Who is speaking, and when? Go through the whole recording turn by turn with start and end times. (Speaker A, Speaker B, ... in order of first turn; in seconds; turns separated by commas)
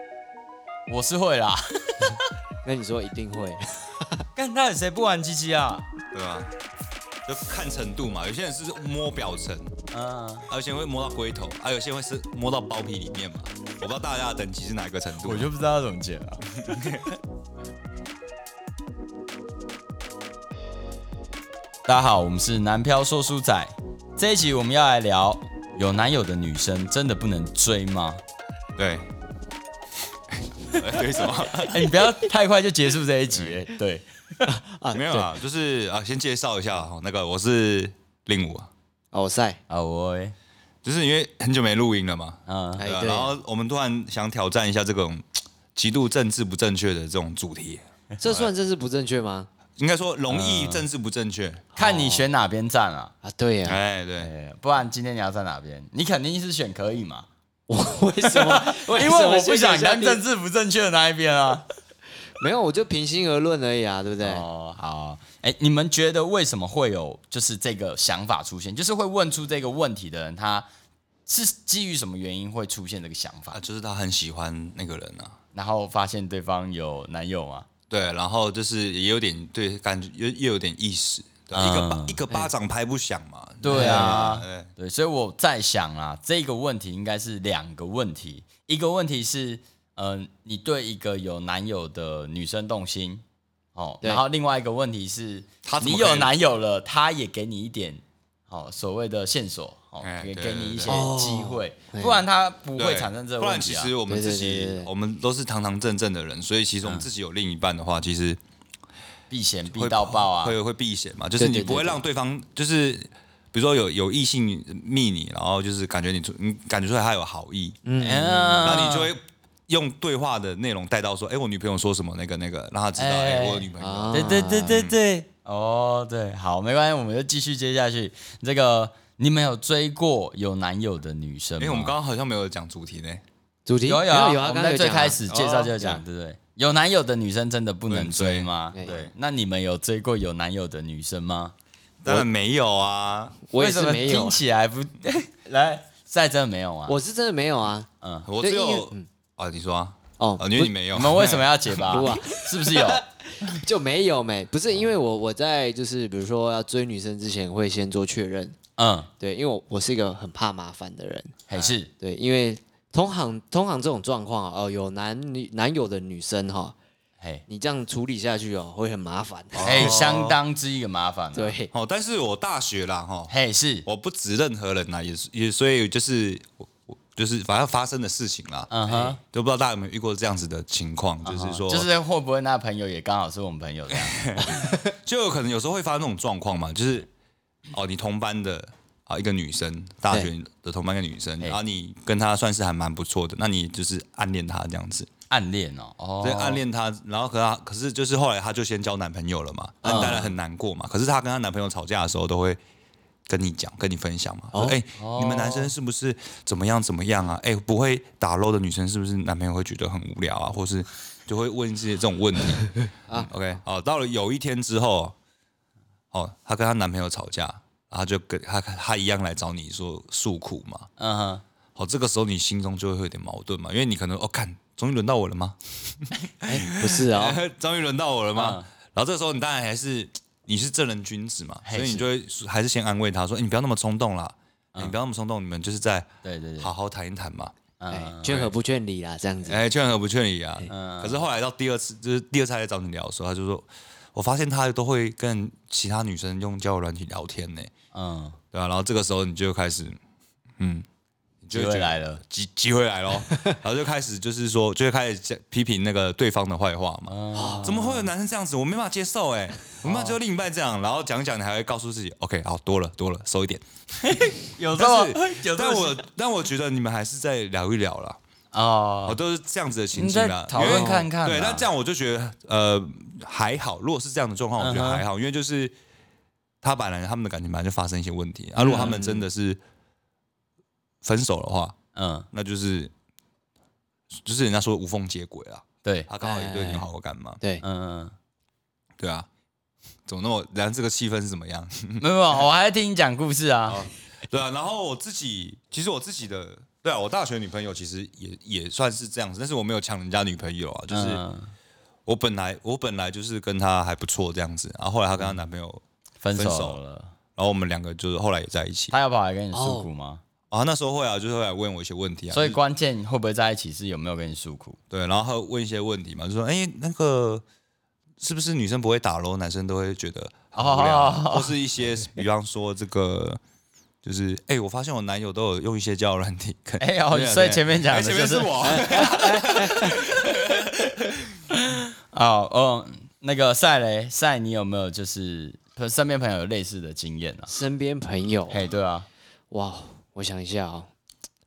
Speaker A: 0.9-2.2, Speaker B: 2.6-4.2, Speaker A: 4.3-5.9, Speaker C: 6.1-6.5, Speaker C: 7.2-9.7, Speaker A: 9.9-10.5, Speaker C: 10.5-15.5, Speaker A: 15.2-17.1, Speaker A: 21.9-28.2, Speaker C: 28.8-29.1, Speaker C: 30.5-31.9, Speaker A: 31.7-34.4, Speaker C: 33.3-33.6, Speaker B: 34.5-35.3, Speaker C: 34.9-38.7, Speaker B: 39.1-39.6, Speaker A: 39.7-40.3, Speaker C: 40.8-48.5, Speaker A: 42.5-42.8, Speaker B: 42.8-43.3, Speaker B: 48.2-49.5, Speaker C: 49.8-51.7, Speaker A: 50.3-50.9, Speaker B: 51.7-52.3, Speaker A: 51.8-53.1, Speaker B: 53.2-53.8, Speaker C: 53.6-54.3, Speaker A: 54.2-57.3, Speaker B: 57.7-60.2, Speaker A: 58.2-61.6, Speaker B: 62.4-64.5, Speaker A: 64.2-70.7, Speaker A: 71.3-73.6, Speaker C: 73.5-75.3, Speaker A: 75.5-77.7, Speaker C: 77.9-84.7, Speaker A: 81.5-82.2, Speaker A: 83.6-93.2, Speaker B: 83.7-84.3, Speaker A: 93.7-103.9, Speaker C: 95.6-96.3, Speaker C: 100.0-101.0, Speaker B: 100.8-102.2, Speaker C: 102.8-108.4, Speaker B: 104.1-104.9, Speaker A: 106.8-107.1, Speaker A: 109.3-110.6, Speaker C: 109.7-117.8, Speaker B: 111.4-112.0, Speaker B: 117.8-118.9, Speaker A: 118.0-119.1, Speaker C: 118.6-125.0, Speaker A: 123.0-131.9, Speaker B: 123.8-124.7, Speaker C: 131.6-133.2, Speaker B: 133.7-135.2, Speaker A: 133.8-141.5, Speaker C: 135.3-135.9, Speaker C: 137.9-139.0, Speaker C: 142.0-143.4, Speaker B: 143.5-144.4, Speaker A: 143.5-147.0, Speaker B: 146.9-147.9, Speaker A: 148.0-148.3, Speaker C: 148.2-151.4, Speaker B: 148.4-149.1, Speaker B: 150.2-150.7, Speaker A: 150.9-153.0, Speaker B: 151.9-158.6, Speaker A: 158.8-159.1, Speaker B: 159.2-161.4, Speaker A: 161.5-161.9, Speaker B: 161.9-166.8, Speaker A: 167.2-167.4, Speaker B: 167.5-170.0, Speaker C: 169.5-170.4, Speaker A: 169.6-171.6, Speaker B: 171.3-171.7, Speaker C: 171.7-173.3, Speaker A: 173.3-173.8, Speaker C: 173.8-181.9, Speaker A: 178.7-179.2, Speaker A: 181.3-184.5, Speaker C: 183.9-187.1, Speaker C: 187.7-195.1, Speaker A: 195.3-196.6, Speaker C: 196.2-202.6, Speaker B: 199.8-200.3, Speaker A: 199.8-200.2, Speaker C: 203.3-215.2, Speaker B: 204.5-204.8, Speaker A: 204.9-205.7, Speaker C: 216.1-220.9, Speaker A: 221.0-221.4, Speaker C: 221.8-236.1, Speaker B: 226.4-227.4, Speaker A: 228.3-228.7, Speaker A: 231.6-232.1, Speaker A: 236.2-236.7, Speaker C: 236.6-237.5, Speaker A: 237.8-238.5, Speaker B: 237.9-239.6, Speaker C: 239.4-247.7, Speaker A: 240.7-241.2, Speaker A: 247.9-248.4, Speaker C: 248.5-250.0, Speaker C: 250.6-250.8, Speaker C: 251.4-268.2, Speaker A: 251.5-252.2, Speaker A: 257.1-257.8, Speaker B: 257.3-258.0, Speaker A: 259.8-260.2, Speaker A: 264.0-266.0, Speaker A: 268.5-269.2, Speaker C: 269.1-275.7, Speaker A: 269.9-271.7, Speaker B: 270.6-271.1, Speaker A: 274.6-275.0, Speaker C: 276.6-279.6, Speaker B: 278.6-279.2, Speaker A: 278.6-278.9, Speaker C: 281.0-281.7, Speaker A: 281.9-282.3, Speaker C: 282.3-282.9, Speaker C: 284.1-287.4, Speaker A: 285.8-286.1, Speaker B: 286.2-286.9, Speaker A: 287.6-288.1, Speaker C: 289.0-289.3, Speaker C: 290.1-292.0, Speaker A: 292.0-293.8, Speaker C: 293.7-301.2, Speaker A: 300.9-301.5, Speaker C: 302.1-305.8, Speaker A: 306.2-307.1, Speaker C: 306.3-306.8, Speaker C: 307.4-308.9, Speaker A: 308.9-310.2, Speaker B: 309.5-309.9, Speaker C: 310.5-312.6, Speaker A: 312.3-314.8, Speaker C: 314.9-317.4, Speaker C: 318.2-323.4, Speaker A: 320.5-321.5, Speaker C: 324.0-331.2, Speaker A: 326.8-329.1, Speaker B: 328.6-330.1, Speaker A: 331.5-337.5, Speaker B: 337.5-338.6, Speaker A: 338.5-339.1, Speaker B: 339.5-340.9